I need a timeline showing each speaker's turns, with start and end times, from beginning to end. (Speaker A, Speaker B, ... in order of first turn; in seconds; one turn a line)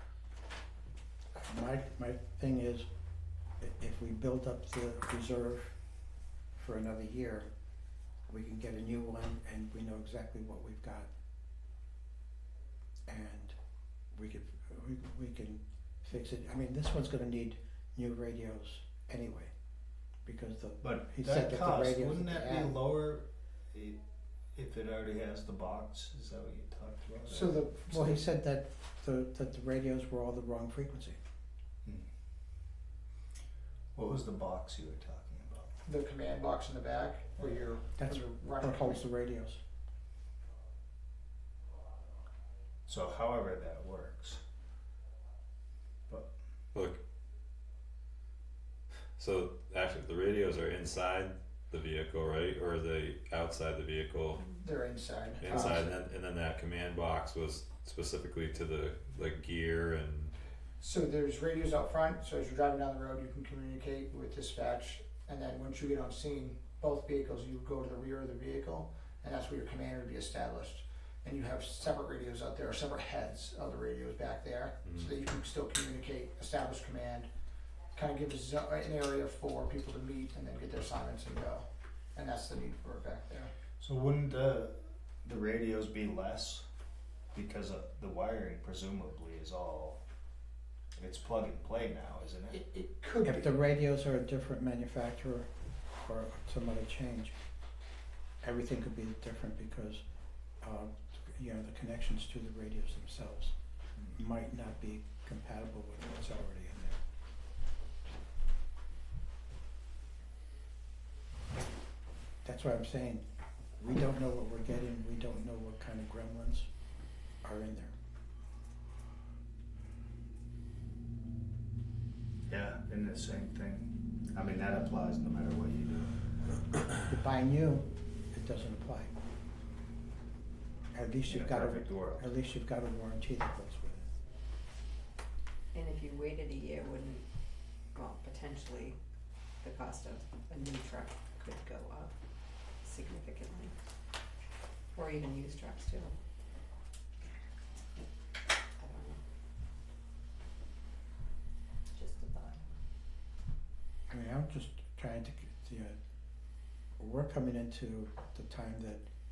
Speaker A: 1.4-2.9
Speaker A: 3.6-5.8
Speaker A: 6.6-7.5
Speaker A: 8.3-11.1
Speaker A: 13.1-13.6
Speaker A: 14.1-19.5
Speaker A: 20.2-22.8
Speaker B: 20.8-24.0
Speaker B: 24.6-28.2
Speaker C: 27.3-28.0
Speaker A: 27.9-31.2
Speaker B: 34.0-35.7
Speaker C: 35.8-39.0
Speaker A: 38.0-39.6
Speaker B: 42.9-44.4
Speaker D: 46.7-47.0
Speaker D: 49.2-54.4
Speaker C: 54.4-56.0
Speaker D: 55.4-60.3
Speaker C: 60.8-77.3
Speaker C: 77.9-83.5
Speaker B: 83.8-86.7
Speaker B: 87.3-90.0
Speaker B: 91.0-92.6
Speaker C: 92.5-93.5
Speaker A: 93.2-97.3
Speaker A: 98.4-100.0
Speaker A: 100.6-103.5
Speaker A: 104.1-107.0
Speaker A: 112.4-113.2
Speaker A: 113.8-116.7
Speaker A: 117.4-118.0
Speaker B: 122.5-126.6
Speaker A: 127.0-129.1
Speaker A: 130.9-134.1
Speaker B: 131.3-132.3
Speaker E: 135.7-137.2
Speaker E: 137.9-139.0
Speaker E: 139.6-142.1
Speaker E: 142.8-143.7
Speaker E: 144.9-146.2
Speaker E: 148.8-149.2
Speaker E: 151.9-152.6
Speaker A: 154.1-156.0
Speaker A: 157.0-159.1